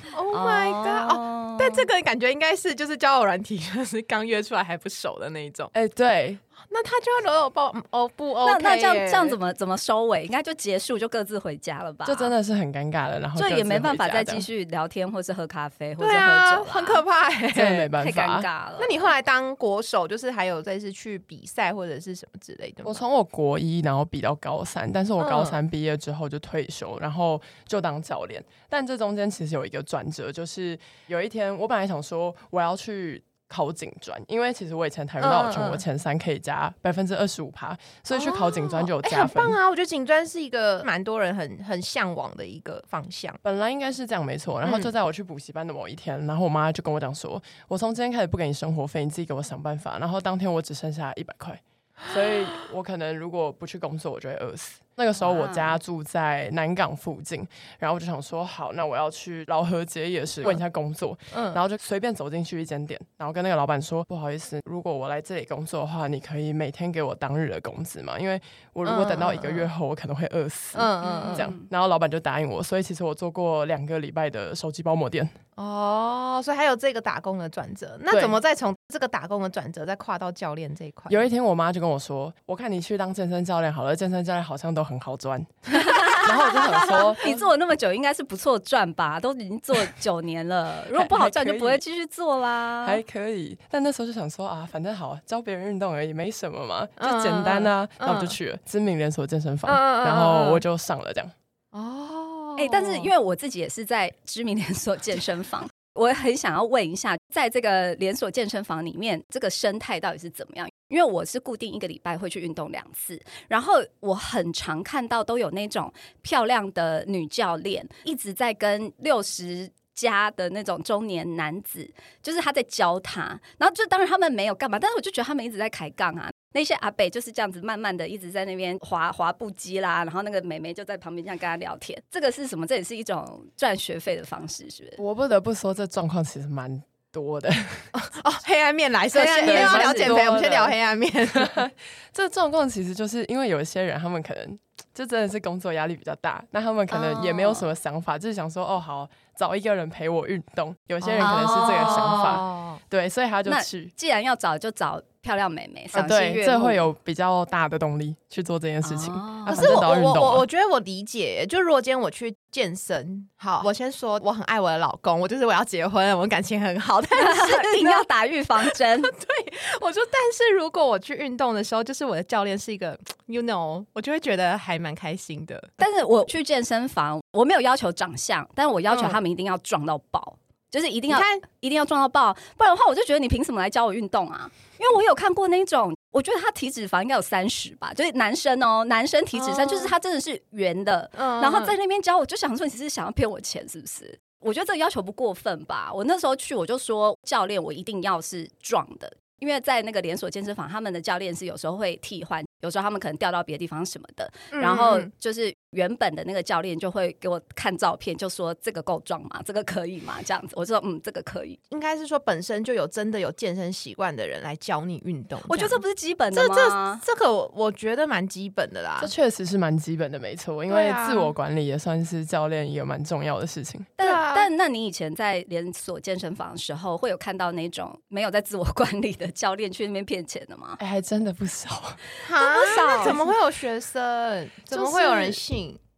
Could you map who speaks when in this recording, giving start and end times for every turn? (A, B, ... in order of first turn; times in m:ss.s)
0:00.1-0:05.7 A
0:00.3-0:01.9 B
0:05.7-0:06.4 C
0:06.7-0:09.4 A
0:08.4-0:12.3 B
0:12.0-0:14.5 C
0:13.4-0:17.0 B
0:16.0-0:17.9 A
0:17.5-0:18.5 C
0:18.0-0:18.9 B
0:18.8-0:23.0 A
0:22.8-0:39.6 C
0:25.2-0:25.6 A
0:35.2-0:35.8 A
0:38.1-0:43.4 A
0:43.4-1:15.4 C
0:44.6-0:44.9 A
0:55.2-0:55.8 B
1:01.3-1:01.6 A
1:08.8-1:09.7 A
1:10.7-1:11.5 A
1:11.0-1:11.7 B
1:15.6-1:21.3 A
1:18.1-1:18.4 C
1:21.1-1:27.5 C
1:25.7-1:33.0 B
1:30.9-1:31.8 C
1:32.8-1:41.3 C
1:37.0-1:38.3 A
1:39.7-1:40.6 A
1:41.7-1:43.1 A
1:42.6-2:15.0 B
2:15.0-2:17.9 C
2:17.9-2:21.6 A
2:19.1-2:20.4 B
2:19.4-2:20.7 C
2:21.3-2:33.9 C
2:26.9-2:27.7 B
2:31.0-2:32.8 A
2:31.2-2:32.4 B
2:33.4-2:36.8 B
2:35.9-2:40.4 C
2:38.8-2:39.8 B
2:39.4-2:48.0 A
2:47.1-2:49.1 B
2:48.6-2:55.7 A
2:55.8-3:31.6 B
2:58.9-2:59.2 A
3:01.1-3:01.4 A
3:09.3-3:09.9 A
3:11.2-3:11.7 A
3:24.5-3:25.1 A
3:31.7-3:39.1 A
3:35.4-3:37.0 B
3:39.0-3:43.9 C
3:40.7-3:41.3 A
3:44.0-3:50.8 B
3:44.0-3:44.5 A
3:50.8-3:52.0 C
3:52.2-3:55.8 A
3:52.3-3:53.2 B
3:52.8-3:53.3 C
3:54.7-3:55.4 C